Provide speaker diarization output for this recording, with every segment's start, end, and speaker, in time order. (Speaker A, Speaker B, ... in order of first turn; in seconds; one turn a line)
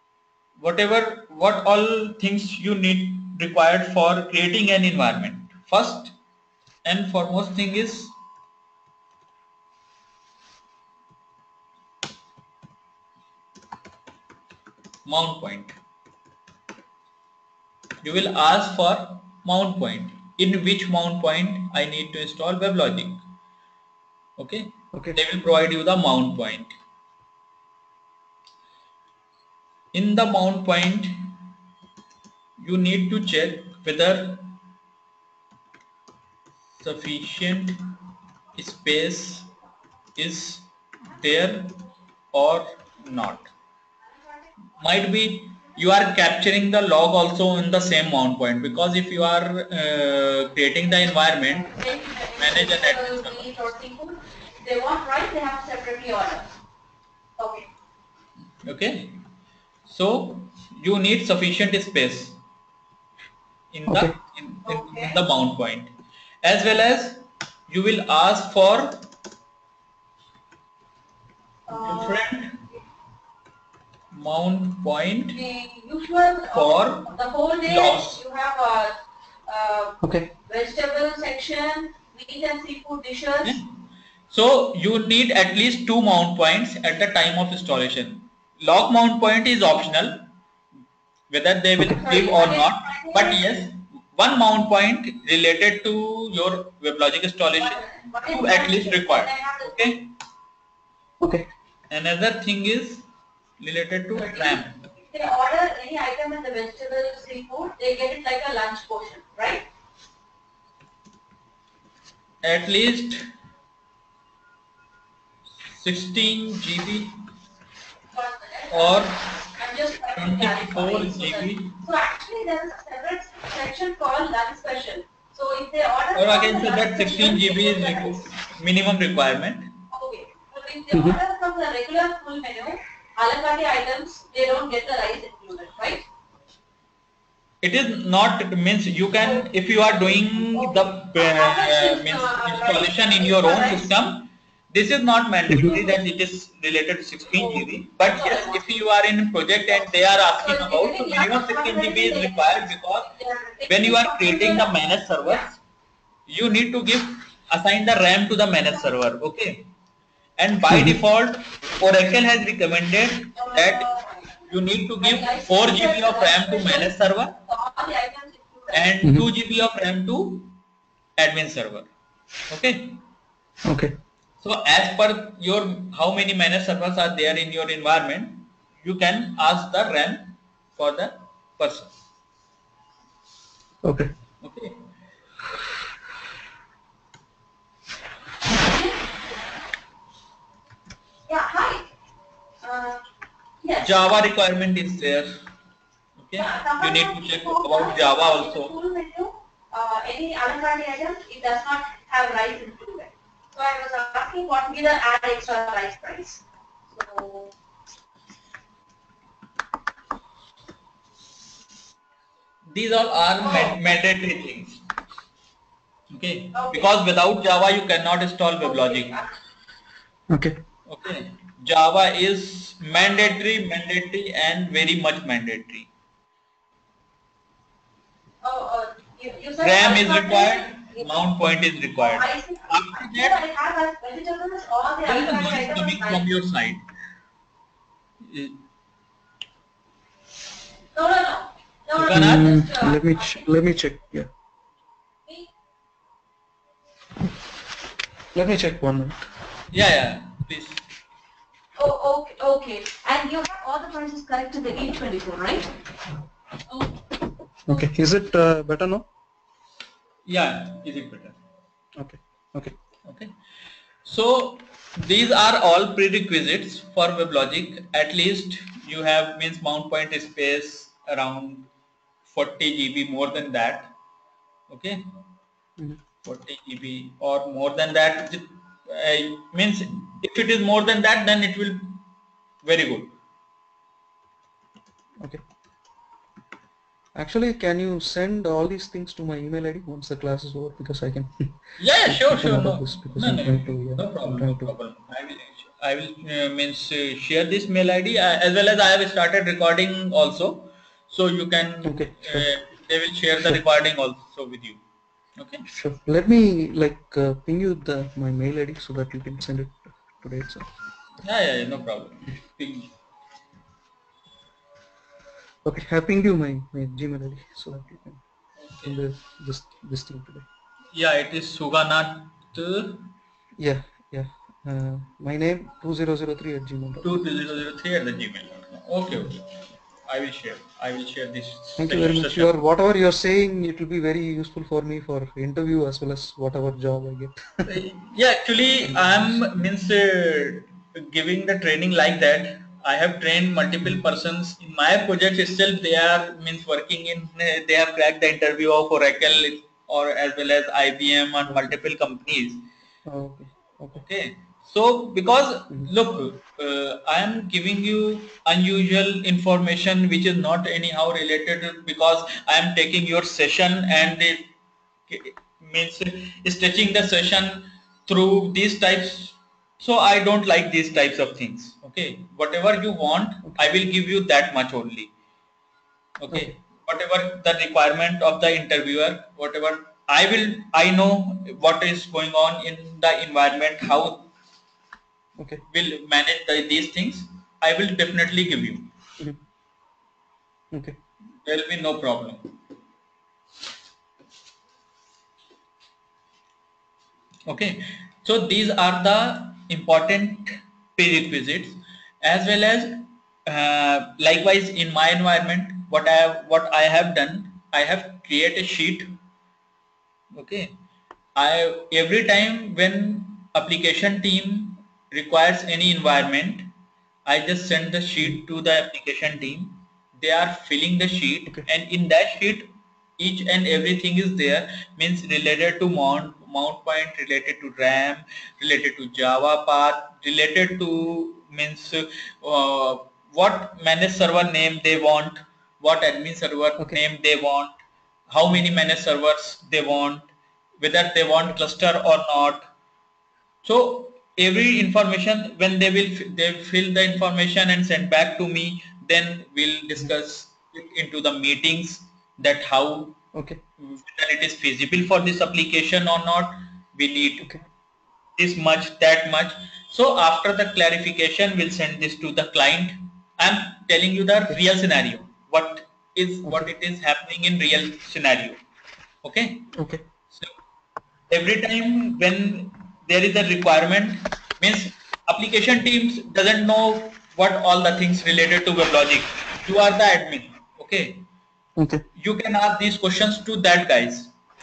Speaker A: 0.6-6.1
Speaker A: 6.8-8.1
Speaker A: 15.0-15.8
Speaker A: 18.0-23.2
Speaker A: 24.4-26.7
Speaker B: 24.9-25.2
Speaker A: 29.9-31.3
Speaker A: 32.6-34.5
Speaker A: 36.8-37.8
Speaker A: 38.5-39.5
Speaker A: 40.2-41.8
Speaker A: 42.3-43.5
Speaker A: 44.8-51.7
Speaker C: 51.6-56.5
Speaker A: 52.4-53.5
Speaker C: 57.4-57.7
Speaker A: 58.6-59.2
Speaker A: 59.9-62.4
Speaker A: 63.7-65.9
Speaker B: 63.9-64.1
Speaker C: 64.7-65.2
Speaker A: 66.4-69.0
Speaker C: 71.7-72.3
Speaker A: 71.7-72.6
Speaker A: 74.1-75.4
Speaker C: 75.3-78.9
Speaker A: 76.5-77.1
Speaker A: 77.7-78.2
Speaker C: 79.5-83.6
Speaker B: 80.0-80.3
Speaker A: 84.3-90.3
Speaker A: 91.3-100.1
Speaker C: 92.0-93.4
Speaker C: 97.6-99.7
Speaker B: 101.2-101.5
Speaker A: 101.9-103.0
Speaker A: 103.6-104.8
Speaker C: 104.2-109.7
Speaker A: 112.4-113.2
Speaker A: 115.7-117.2
Speaker C: 118.1-128.3
Speaker A: 118.7-119.2
Speaker A: 120.1-121.8
Speaker A: 126.1-129.7
Speaker C: 129.9-136.0
Speaker B: 130.9-131.2
Speaker A: 137.6-153.1
Speaker C: 139.2-139.5
Speaker C: 140.1-143.9
Speaker B: 145.5-145.8
Speaker C: 145.6-146.0
Speaker C: 147.3-148.6
Speaker C: 150.4-154.7
Speaker A: 153.7-155.6
Speaker A: 156.3-159.6
Speaker A: 160.4-163.9
Speaker B: 160.7-161.0
Speaker C: 163.3-164.2
Speaker A: 164.5-167.3
Speaker C: 165.0-166.9
Speaker C: 167.4-168.9
Speaker A: 168.7-170.5
Speaker B: 169.0-169.3
Speaker A: 171.2-171.9
Speaker A: 172.5-173.0
Speaker B: 173.6-173.9
Speaker A: 174.4-181.9
Speaker B: 183.8-184.1
Speaker A: 184.4-184.8
Speaker C: 188.5-189.1
Speaker C: 191.3-191.8
Speaker C: 192.6-193.0
Speaker C: 193.6-194.0
Speaker A: 193.8-195.3
Speaker A: 196.2-198.7
Speaker C: 196.4-207.5
Speaker A: 212.7-214.8
Speaker C: 213.4-213.8
Speaker A: 216.1-219.2
Speaker C: 216.5-216.9
Speaker C: 218.6-219.3
Speaker B: 220.3-220.6
Speaker A: 220.9-225.9
Speaker C: 223.0-223.3
Speaker C: 228.4-231.1
Speaker A: 229.6-233.4
Speaker C: 232.0-236.2
Speaker A: 235.1-236.8
Speaker A: 238.2-238.6
Speaker C: 240.9-243.5
Speaker B: 242.0-244.3
Speaker A: 242.0-242.6
Speaker B: 248.3-249.2
Speaker A: 249.7-250.8
Speaker C: 251.8-255.7
Speaker B: 257.7-259.1
Speaker A: 260.2-261.4
Speaker B: 262.0-262.7
Speaker A: 263.1-263.3
Speaker A: 264.0-271.7
Speaker A: 272.3-273.9
Speaker A: 274.7-275.0
Speaker A: 276.2-282.0
Speaker A: 282.6-283.1
Speaker B: 287.1-291.5
Speaker A: 291.8-304.8
Speaker B: 292.1-294.7
Speaker B: 301.8-302.5
Speaker A: 305.4-305.6
Speaker B: 305.7-310.7
Speaker A: 311.2-312.9
Speaker B: 315.6-318.2
Speaker A: 318.6-319.0
Speaker B: 318.8-320.4
Speaker A: 320.9-323.1
Speaker B: 323.6-327.3
Speaker A: 327.0-329.5
Speaker A: 330.1-332.5
Speaker B: 331.8-337.8
Speaker A: 337.6-352.6
Speaker B: 338.8-339.7
Speaker B: 353.1-354.0
Speaker A: 353.9-364.5
Speaker A: 365.1-375.1
Speaker A: 376.2-384.2
Speaker B: 385.4-385.6
Speaker A: 385.7-388.9
Speaker B: 390.7-391.0
Speaker A: 391.4-392.4
Speaker A: 397.5-409.1
Speaker A: 410.3-410.7
Speaker A: 411.4-416.7
Speaker A: 417.2-437.7
Speaker A: 438.3-442.7
Speaker A: 443.6-453.2
Speaker B: 453.3-453.6
Speaker A: 453.8-457.5
Speaker A: 458.4-468.6
Speaker A: 469.2-469.7
Speaker B: 469.8-470.0
Speaker A: 471.3-481.2
Speaker B: 481.8-482.0
Speaker A: 482.2-484.3